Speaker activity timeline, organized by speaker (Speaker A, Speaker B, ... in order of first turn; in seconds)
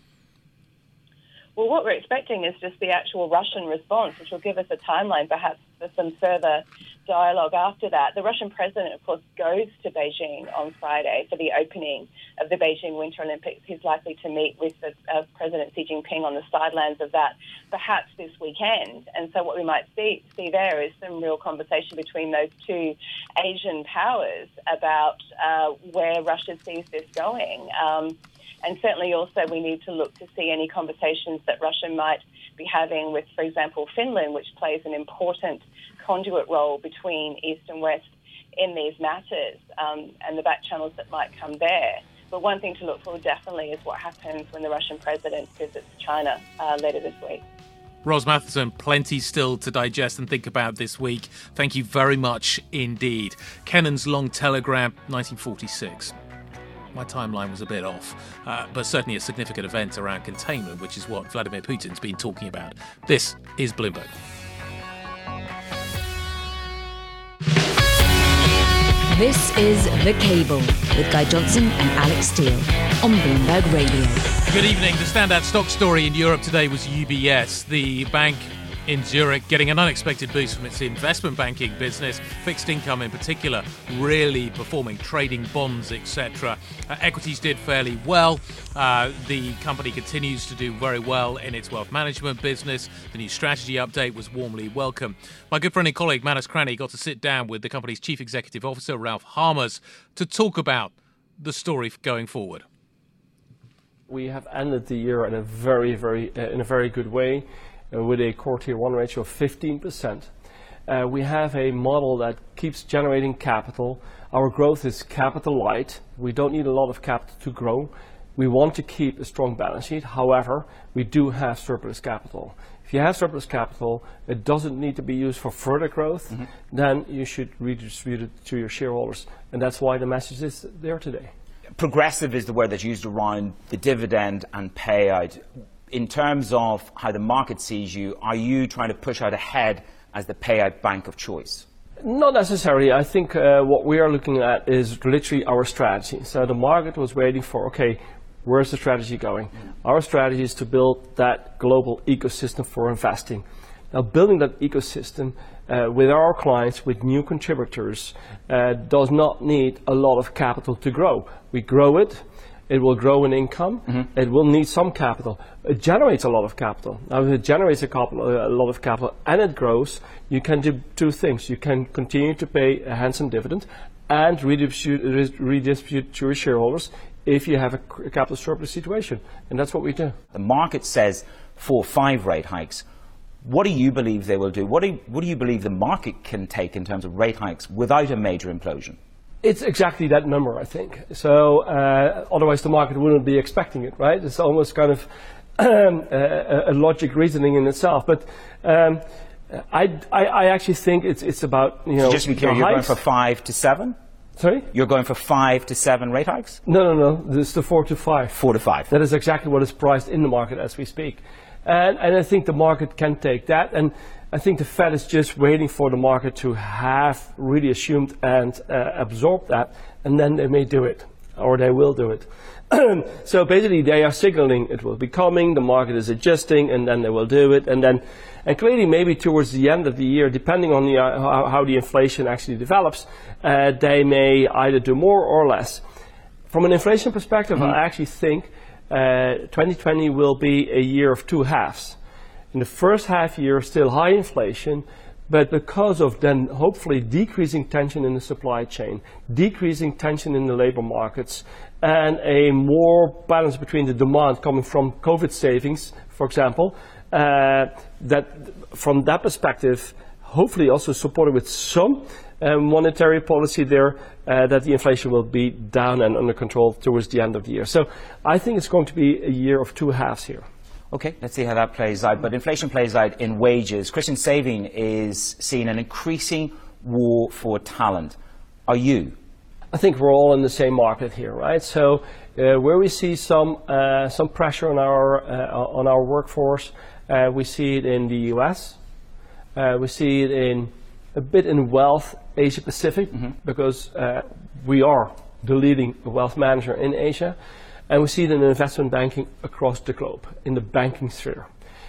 Speaker A: 1.6-47.4
Speaker B: 48.0-56.1, 56.9-64.1, 74.5-102.7
Speaker C: 69.1-74.3
Speaker D: 104.1-110.3, 110.9-131.3, 142.0-180.2, 189.4-202.9, 204.4-204.7, 206.7-208.4, 208.9-235.8, 236.5-242.0, 242.5-270.5, 279.7-288.8, 289.6-297.4, 297.9-301.5
Speaker E: 131.8-141.7, 180.3-182.8, 183.4-189.0, 202.0-204.0, 204.7-206.6, 208.4-208.9, 270.9-278.2, 278.7-279.2